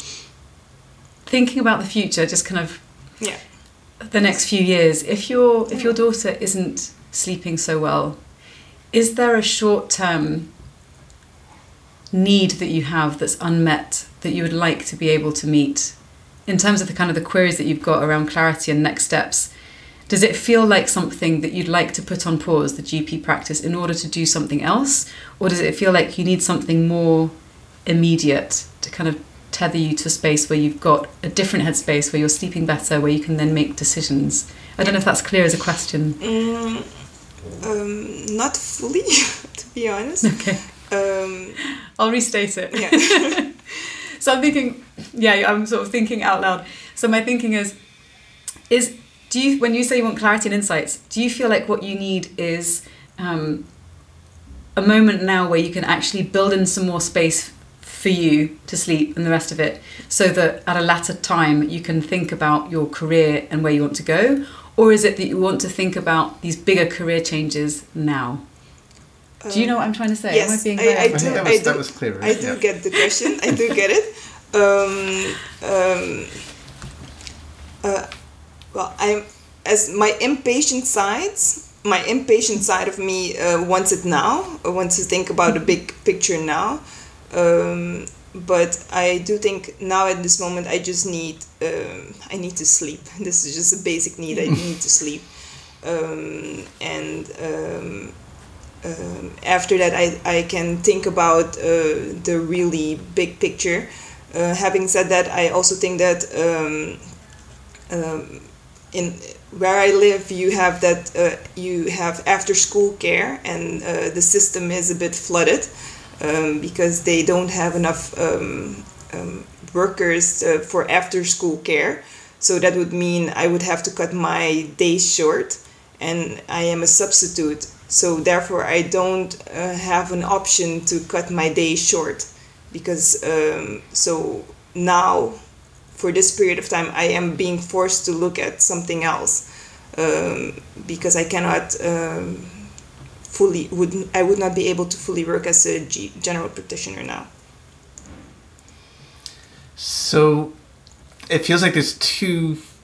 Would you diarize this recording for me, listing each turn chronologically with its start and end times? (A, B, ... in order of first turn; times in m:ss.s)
0:01.3-0:03.2 A
0:04.0-0:08.2 A
0:05.7-0:06.0 B
0:08.9-0:10.5 A
0:12.1-0:19.5 A
0:20.1-0:27.3 A
0:27.8-0:36.2 A
0:36.2-0:36.9 B
0:37.6-0:41.6 B
0:40.2-0:40.6 A
0:42.0-0:47.8 A
0:42.7-0:43.4 B
0:48.7-0:53.7 A
0:54.8-1:08.4 A
1:09.4-1:16.5 B
1:09.5-1:11.7 A
1:11.1-1:12.6 C
1:17.8-1:18.1 B
1:18.7-1:38.2 B
1:38.8-1:47.0 B
1:47.9-2:15.4 B
2:15.9-2:22.7 B
2:23.3-2:27.3 B
2:29.8-2:30.6 C
2:31.3-2:32.6 C